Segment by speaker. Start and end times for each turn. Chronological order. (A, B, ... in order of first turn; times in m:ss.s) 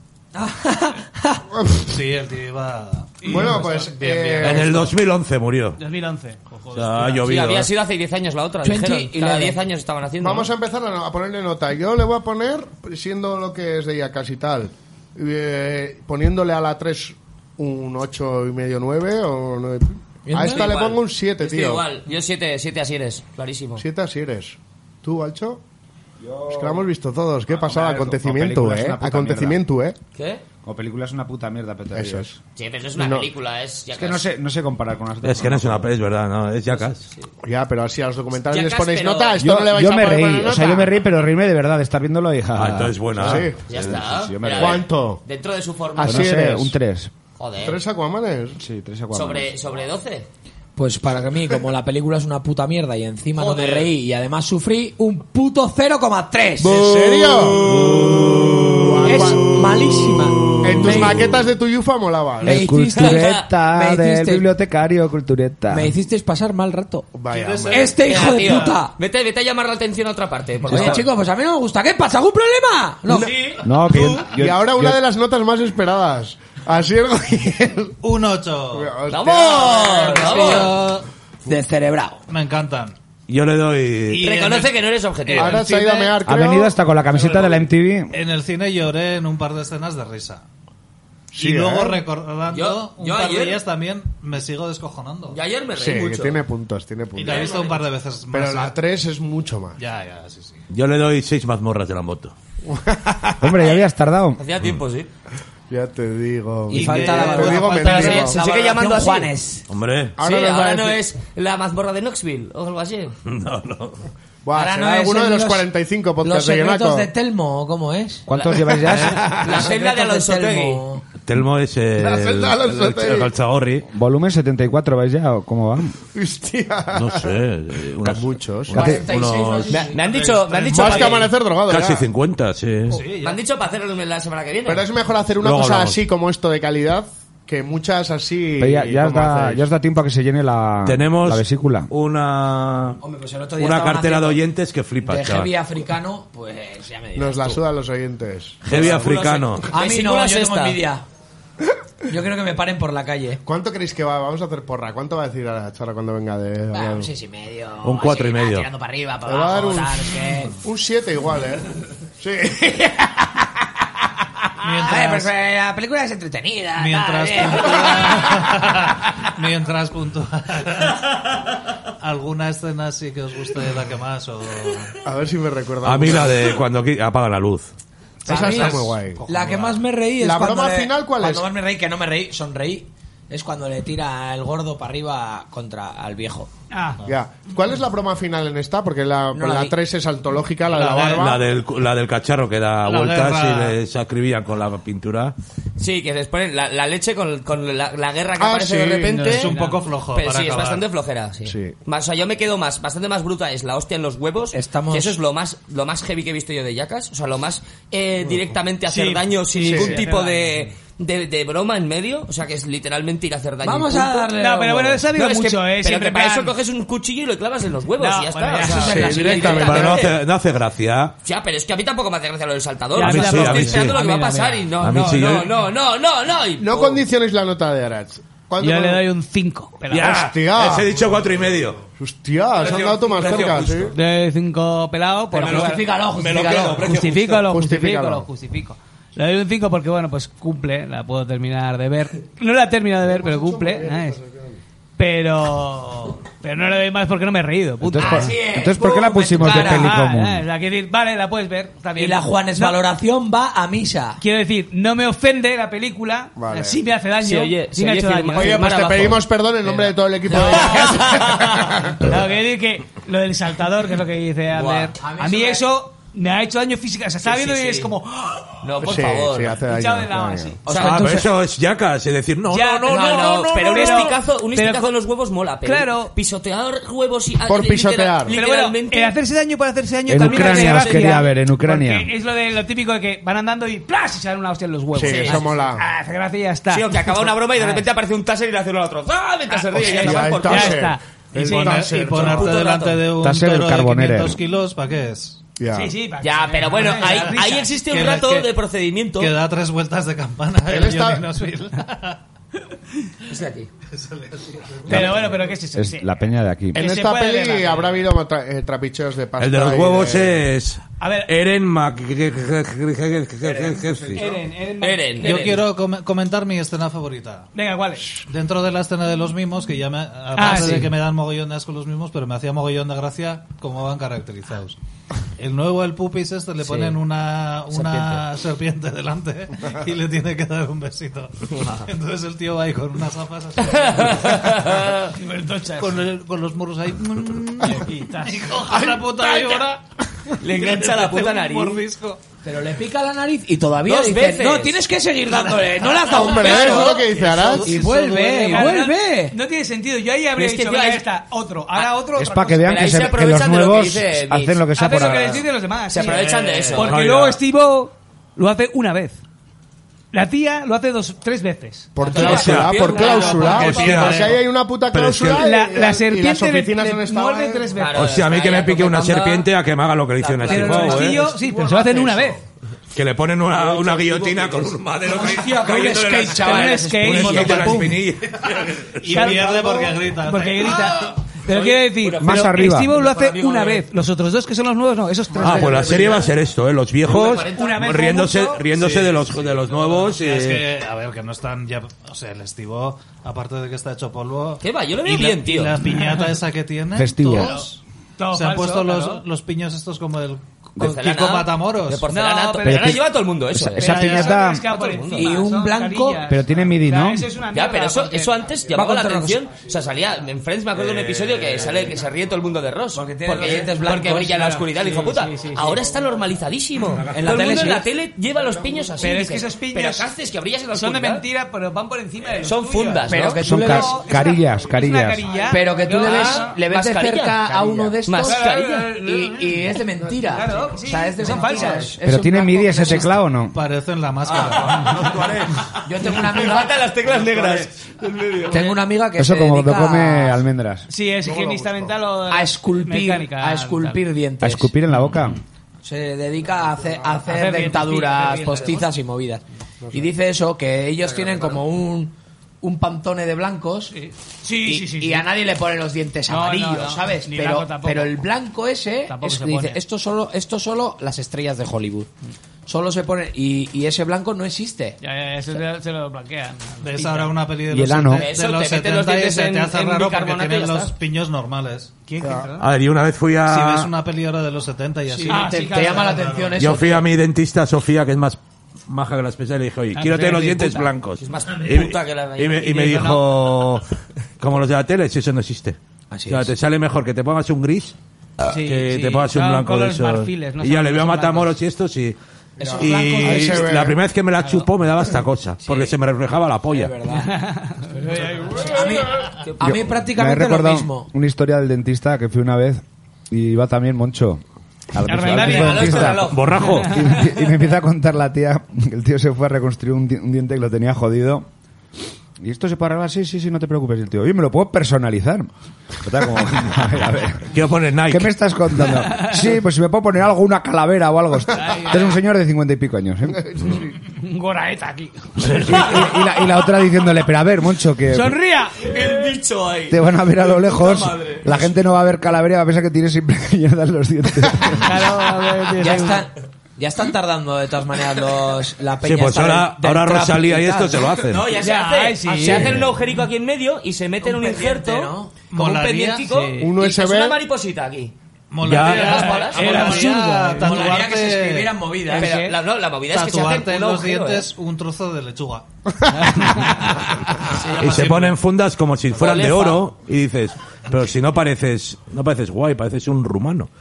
0:00.4-0:01.4 A
0:01.9-0:04.9 B
0:03.2-0:04.9 C
0:03.3-0:03.6 D
0:04.4-0:05.8 E
0:05.8-0:07.3 D
0:06.7-0:07.7 E
0:07.2-0:10.5 F
0:08.6-0:09.7 A
0:10.2-0:21.9 C
0:20.3-0:20.9 A
0:20.4-0:23.8 F
0:23.8-0:25.6 C
0:26.2-0:26.9 G
0:26.5-0:30.0 C
0:27.5-0:29.6 G
0:30.2-0:30.4 F
0:30.6-0:32.4 G
0:31.9-0:32.3 C
0:32.6-0:34.3 F
0:33.0-0:33.3 C
0:33.9-0:35.9 G
0:35.2-0:37.0 E
0:37.4-0:40.9 C
0:38.5-0:39.4 F
0:39.4-0:44.8 G
0:42.6-0:43.5 E
0:43.2-0:45.2 C
0:43.7-0:46.4 F
0:46.0-0:46.7 C
0:46.0-0:47.1 G
0:47.4-0:47.8 F
0:47.6-0:48.6 C
0:48.6-0:49.6 G
0:49.1-0:50.3 F
0:50.8-0:57.3 A
0:53.4-0:53.9 F
0:56.6-0:59.5 C
0:59.0-1:01.3 A
1:00.6-1:02.7 C
1:02.5-1:04.5 A
1:02.5-1:05.9 G
1:02.9-1:03.5 F
1:05.7-1:07.1 A
1:07.1-1:08.0 C
1:07.3-1:08.8 B
1:07.7-1:08.9 A
1:08.0-1:11.1 F
1:10.7-1:13.4 A
1:13.1-1:14.2 F
1:13.6-1:15.0 G
1:14.0-1:18.0 C
1:18.0-1:18.9 B
1:18.7-1:20.7 C
1:19.1-1:20.8 F
1:20.0-1:21.1 B
1:21.5-1:22.2 A
1:22.3-1:23.0 B
1:23.3-1:24.2 E
1:24.1-1:26.2 B
1:24.2-1:25.7 F
1:25.4-1:26.7 C
1:26.2-1:28.1 G
1:27.2-1:27.5 B
1:28.1-1:30.4 B
1:31.4-1:32.0 C
1:31.4-1:35.4 B
1:32.5-1:33.6 F
1:35.3-1:36.4 F
1:35.7-1:37.6 C
1:37.2-1:38.8 B
1:37.3-1:37.8 F
1:38.3-1:39.8 C
1:39.8-1:40.6 B
1:40.7-1:42.3 E
1:42.7-1:43.5 C
1:43.4-1:44.4 G
1:44.4-1:45.1 F
1:45.7-1:48.4 C
1:46.7-1:48.3 B
1:46.7-1:49.6 A
1:47.8-1:49.4 F
1:49.7-1:50.2 E
1:50.2-1:51.0 C
1:50.2-1:53.1 F
1:53.2-1:54.0 E
1:54.4-1:57.1 C
1:54.6-1:55.7 A
1:56.2-1:58.3 A
1:58.3-1:59.7 G
1:58.9-1:59.2 E
1:59.3-2:01.0 A
1:59.3-2:00.9 F
2:01.2-2:03.8 E
2:02.0-2:03.3 C
2:03.9-2:05.9 G
2:06.1-2:07.3 C
2:07.0-2:09.9 E
2:08.0-2:09.0 C
2:08.7-2:10.2 A
2:08.7-2:09.0 G
2:09.7-2:11.3 F
2:10.2-2:10.8 B
2:10.5-2:12.0 C
2:11.7-2:13.0 E
2:12.9-2:13.4 B
2:13.2-2:14.9 F
2:14.6-2:19.6 C
2:15.4-2:16.0 E
2:18.6-2:21.9 G
2:20.8-2:23.0 E
2:23.0-2:24.4 A
2:23.6-2:25.5 E
2:25.0-2:27.6 A
2:27.1-2:28.9 C
2:28.6-2:29.7 E
2:28.7-2:30.9 F
2:29.7-2:31.0 A
2:32.1-2:33.4 A
2:33.4-2:37.1 C
2:36.7-2:40.6 A
2:37.8-2:38.7 E
2:39.2-2:41.7 C
2:42.2-2:42.7 C
2:44.6-2:45.3 B
2:44.7-2:48.5 A
2:46.8-2:51.0 B
2:52.0-2:54.9 B
2:55.0-2:56.6 C
2:55.8-2:57.7 E
2:58.2-2:59.3 C
2:58.3-3:06.5 A
2:58.4-2:59.8 B
3:00.2-3:01.5 C
3:06.7-3:07.0 D
3:07.1-3:11.4 C
3:09.3-3:09.8 A
3:10.7-3:11.3 B
3:11.2-3:15.3 E
3:12.8-3:13.8 B
3:15.8-3:19.5 F
3:18.4-3:19.4 C
3:19.1-3:20.9 B
3:19.3-3:19.8 D
3:20.1-3:34.3 F
3:21.4-3:21.8 C
3:24.5-3:25.2 A
3:28.9-3:30.7 D
3:29.6-3:30.0 C
3:33.6-3:35.1 A
3:34.3-3:36.6 D
3:35.1-3:40.1 F
3:38.0-3:39.6 D
3:38.6-3:40.0 A
3:38.9-3:40.0 C
3:39.3-3:41.1 E
3:41.2-3:47.0 F
3:43.0-3:45.3 D
3:43.0-3:44.0 E
3:44.8-3:45.5 E
3:46.6-3:49.0 C
3:48.6-3:50.2 D
3:49.9-3:51.8 E
3:50.0-3:51.0 C
3:52.0-3:53.9 C
3:52.6-3:53.9 F
3:52.7-3:53.8 E
3:53.9-3:55.8 D
3:55.4-3:56.9 A
3:55.4-3:57.4 E
3:56.7-4:04.2 D
3:57.5-3:58.3 C
4:03.1-4:04.6 C
4:05.0-4:12.8 D
4:07.8-4:10.4 G
4:08.0-4:10.0 A
4:12.0-4:14.2 A
4:14.2-4:18.8 D
4:16.4-4:16.8 C
4:17.2-4:19.2 F
4:18.4-4:22.1 C
4:20.3-4:21.0 A
4:20.4-4:21.0 D
4:20.4-4:20.7 F
4:22.0-4:28.6 D
4:24.5-4:25.0 F
4:25.0-4:25.6 A
4:27.2-4:27.9 F
4:28.6-4:29.6 F
4:28.8-4:30.6 C
4:29.7-4:30.7 D
4:30.6-4:31.3 A
4:30.7-4:31.1 F
4:30.8-4:33.8 E
4:32.5-4:34.9 D
4:32.9-4:39.2 F
4:32.9-4:34.2 A
4:35.6-4:36.1 D
4:37.4-4:38.4 C
4:38.3-4:47.8 D
4:40.1-4:42.1 G
4:40.2-4:41.2 F
4:44.9-4:45.8 C
4:45.0-4:45.5 F
4:46.7-4:50.9 F
4:49.7-4:52.6 C
4:49.8-4:52.3 D
4:51.4-4:55.4 B
4:52.1-4:53.0 F
4:53.2-4:54.4 G
4:55.6-4:55.9 C
4:55.7-4:57.6 D
4:56.2-4:59.3 F
4:56.7-4:58.5 B
4:59.2-5:02.2 B
5:00.7-5:01.3 C
5:03.3-5:03.7 F
5:03.9-5:05.2 B
5:04.9-5:06.1 D
5:04.9-5:05.2 G
5:05.8-5:06.8 G
5:06.7-5:07.9 D
5:06.7-5:10.4 C
5:09.4-5:14.3 E
5:11.0-5:11.3 D
5:13.5-5:13.8 F
5:14.2-5:15.6 D
5:14.8-5:15.6 F
5:15.2-5:17.5 B
5:17.5-5:18.1 D
5:18.3-5:24.8 B
5:20.4-5:20.9 D
5:25.4-5:34.7 B
5:27.7-5:28.0 F
5:31.6-5:31.8 F
5:33.7-5:35.1 F
5:35.2-5:36.1 D
5:35.8-5:39.8 B
5:37.6-5:38.5 D
5:39.3-5:39.6 F
5:40.3-5:42.2 B
5:40.4-5:41.8 F
5:42.4-5:47.1 A
5:43.8-5:44.9 F
5:45.3-5:48.7 B
5:46.1-5:47.7 C
5:46.3-5:47.0 F
5:47.6-5:49.3 A
5:48.5-5:52.9 D
5:50.4-5:51.0 F
5:52.2-5:55.5 G
5:52.6-5:55.1 F
5:54.8-5:59.2 D
5:55.9-5:57.0 F
5:56.3-5:56.7 B
5:56.8-5:57.4 E
6:00.1-6:04.0 D
6:02.0-6:07.8 C
6:02.1-6:04.3 F
6:02.2-6:04.4 E
6:03.5-6:04.2 B
6:04.9-6:05.4 E
6:05.4-6:08.3 D
6:07.8-6:09.5 F
6:08.0-6:11.2 E
6:10.2-6:11.0 F
6:10.5-6:12.4 D
6:11.2-6:12.3 C
6:12.9-6:19.4 E
6:15.0-6:17.9 A
6:16.4-6:18.0 D
6:19.0-6:21.1 B
6:19.1-6:26.1 D
6:21.5-6:23.8 F
6:22.2-6:23.0 G
6:25.4-6:26.2 C
6:25.4-6:30.6 E
6:27.1-6:27.8 F
6:27.5-6:28.6 D
6:28.7-6:37.8 B
6:34.6-6:35.8 F
6:35.9-6:36.3 D
6:37.0-6:37.5 G
6:37.4-6:37.7 D
6:38.2-6:39.2 D
6:38.3-6:42.1 B
6:40.8-6:44.2 F
6:42.1-6:43.0 D
6:42.6-6:44.6 G
6:43.8-6:44.4 B
6:43.8-6:48.4 D
6:44.8-6:45.3 F
6:44.9-6:46.2 A
6:46.3-6:47.3 G
6:47.5-7:01.2 F
6:48.7-6:49.6 A
6:50.8-6:51.9 E
6:52.9-6:54.9 A
6:53.3-6:53.7 D
6:54.4-6:55.8 D
6:56.9-6:57.6 E
6:57.1-6:57.9 A
6:59.0-7:00.1 D
7:00.7-7:06.6 D
7:02.4-7:03.6 F
7:03.1-7:04.0 A
7:03.4-7:05.3 G
7:05.5-7:13.2 A
7:05.9-7:07.5 F
7:07.5-7:08.0 C
7:08.0-7:09.1 F
7:08.2-7:09.7 D
7:10.3-7:11.9 D
7:12.0-7:13.6 G
7:13.5-7:15.1 B
7:14.7-7:15.5 E
7:15.8-7:16.9 A
7:16.0-7:18.9 F
7:17.1-7:18.4 E
7:18.5-7:20.4 A
7:19.2-7:20.9 G
7:20.9-7:24.0 D
7:21.2-7:21.9 C
7:22.3-7:24.7 A
7:24.4-7:25.4 G
7:25.8-7:33.9 A
7:27.3-7:28.9 D
7:29.8-7:30.1 C
7:33.9-7:35.3 D
7:34.6-7:42.1 A
7:36.3-7:38.2 D
7:39.1-7:39.8 D
7:42.7-7:45.0 A
7:45.0-7:47.4 D
7:46.8-7:52.1 B
7:47.7-7:48.2 G
7:48.2-7:50.9 F
7:52.1-7:52.7 D
7:52.2-7:52.5 C
7:52.6-7:53.9 E
7:53.5-7:56.6 B
7:55.1-7:57.1 A
7:55.3-7:56.3 D
7:56.6-8:03.8 E
8:00.0-8:00.9 D
8:01.2-8:03.2 F
8:04.4-8:08.0 E
8:06.1-8:06.5 A
8:08.5-8:11.5 D
8:08.5-8:12.2 E
8:12.6-8:13.7 A
8:12.6-8:14.0 C
8:12.8-8:16.9 E
8:15.6-8:15.9 A
8:16.7-8:17.3 A
8:17.2-8:19.0 D
8:18.6-8:21.1 A
8:19.4-8:19.8 F
8:19.6-8:31.5 G
8:25.1-8:27.1 D
8:25.2-8:26.4 F
8:26.1-8:26.9 E
8:32.4-8:35.5 G
8:36.0-8:37.5 G
8:37.5-8:38.3 E
8:38.1-8:43.4 G
8:39.1-8:39.4 D
8:41.5-8:42.2 D
8:43.5-8:43.9 C
8:44.2-8:45.8 D
8:45.4-8:48.4 G
8:48.1-8:49.3 D
8:48.9-8:51.6 F
8:49.9-8:55.0 G
8:54.8-8:56.2 D
8:55.8-9:01.1 A
8:59.0-9:01.5 E
9:01.2-9:08.1 F
9:01.6-9:02.8 D
9:02.2-9:03.0 A
9:04.2-9:05.5 A
9:05.5-9:06.3 B
9:06.2-9:06.7 D
9:06.6-9:07.4 C
9:08.5-9:11.8 B
9:08.6-9:09.3 E
9:08.9-9:11.0 D
9:08.9-9:10.0 F
9:09.8-9:10.1 A
9:10.6-9:12.4 A
9:12.1-9:14.5 F
9:12.1-9:12.6 D
9:13.1-9:15.7 B
9:16.1-9:17.0 D
9:17.4-9:18.4 B
9:17.8-9:23.7 E
9:19.1-9:19.8 F